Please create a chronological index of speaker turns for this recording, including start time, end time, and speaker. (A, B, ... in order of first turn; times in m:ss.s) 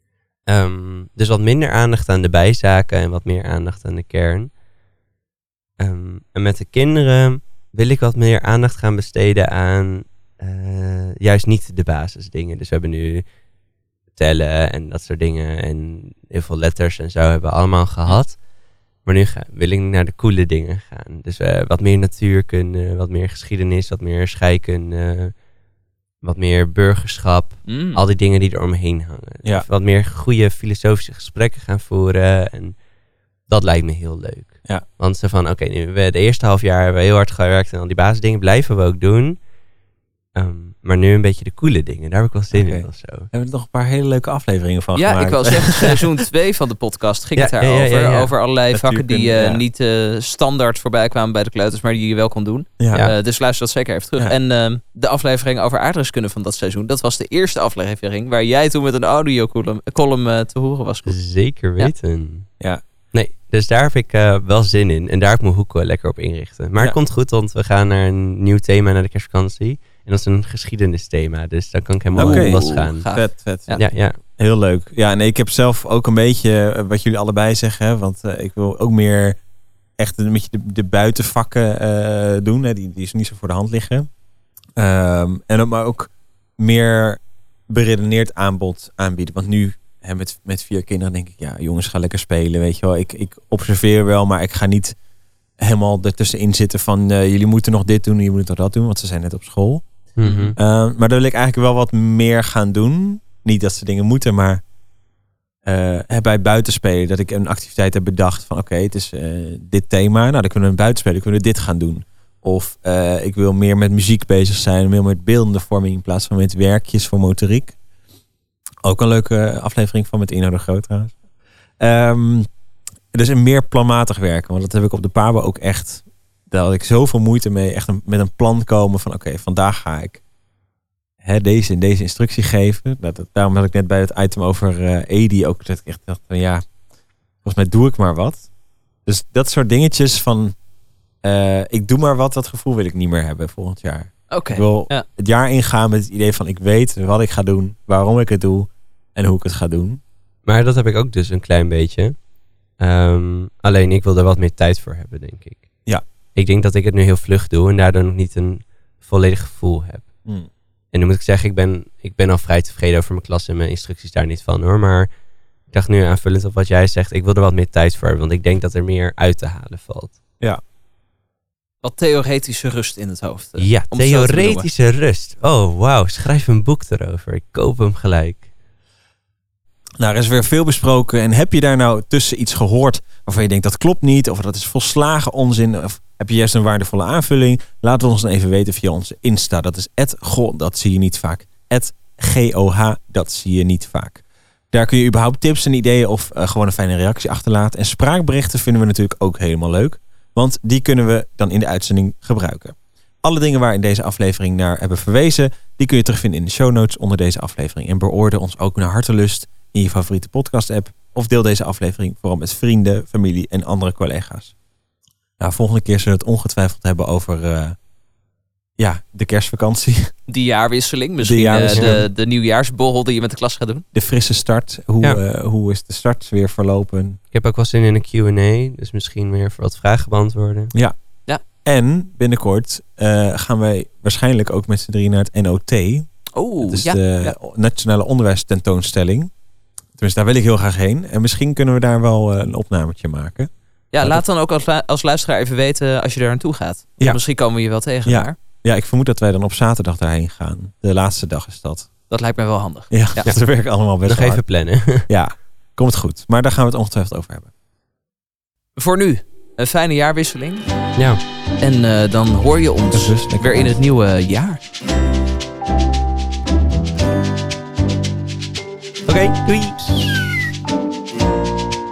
0:00.5-0:04.5 A
0:05.8-0:13.3 A
0:14.2-0:18.4 A
0:19.0-0:25.4 A
0:26.2-0:32.8 A
0:27.7-0:28.0 B
0:33.5-0:39.4 A
0:40.4-0:43.3 A
0:42.5-0:46.0 C
0:45.0-1:01.2 B
0:47.4-0:48.3 A
0:48.7-0:49.6 C
0:52.8-0:53.1 C
1:01.1-1:02.5 A
1:03.1-1:13.1 A
1:12.2-1:19.4 C
1:12.2-1:13.8 B
1:13.8-1:14.2 A
1:20.0-1:24.1 C
1:24.8-1:35.0 C
1:35.6-1:39.8 C
1:40.2-1:40.6 A
1:40.2-1:40.5 B
1:40.6-1:44.6 C
1:45.6-1:57.8 C
1:58.8-2:01.2 C
2:01.8-2:02.5 C
2:03.1-2:10.2 C
2:11.2-2:16.6 C
2:17.4-2:18.5 C
2:19.1-2:20.6 C
2:21.2-2:30.0 C
2:24.3-2:25.0 B
2:30.4-2:32.2 A
2:32.8-2:35.7 A
2:36.4-2:40.1 A
2:40.9-2:45.1 A
2:45.7-2:50.2 A
2:51.8-2:54.7 B
2:53.6-2:58.5 A
3:00.0-3:34.5 C
3:35.4-3:37.8 C
3:38.8-3:40.1 C
3:40.3-3:43.8 B
3:41.2-3:42.1 C
3:43.9-3:47.2 C
3:47.3-3:50.7 A
3:51.5-3:59.3 C
3:56.4-3:57.4 B
4:00.0-4:03.5 C
4:03.9-4:08.3 B
4:08.1-4:11.9 C
4:12.1-4:13.3 B
4:12.9-4:14.4 C
4:14.1-4:15.1 A
4:15.1-4:17.5 C
4:18.8-4:20.6 B
4:21.6-4:24.6 B
4:22.9-4:23.7 C
4:29.1-4:30.4 A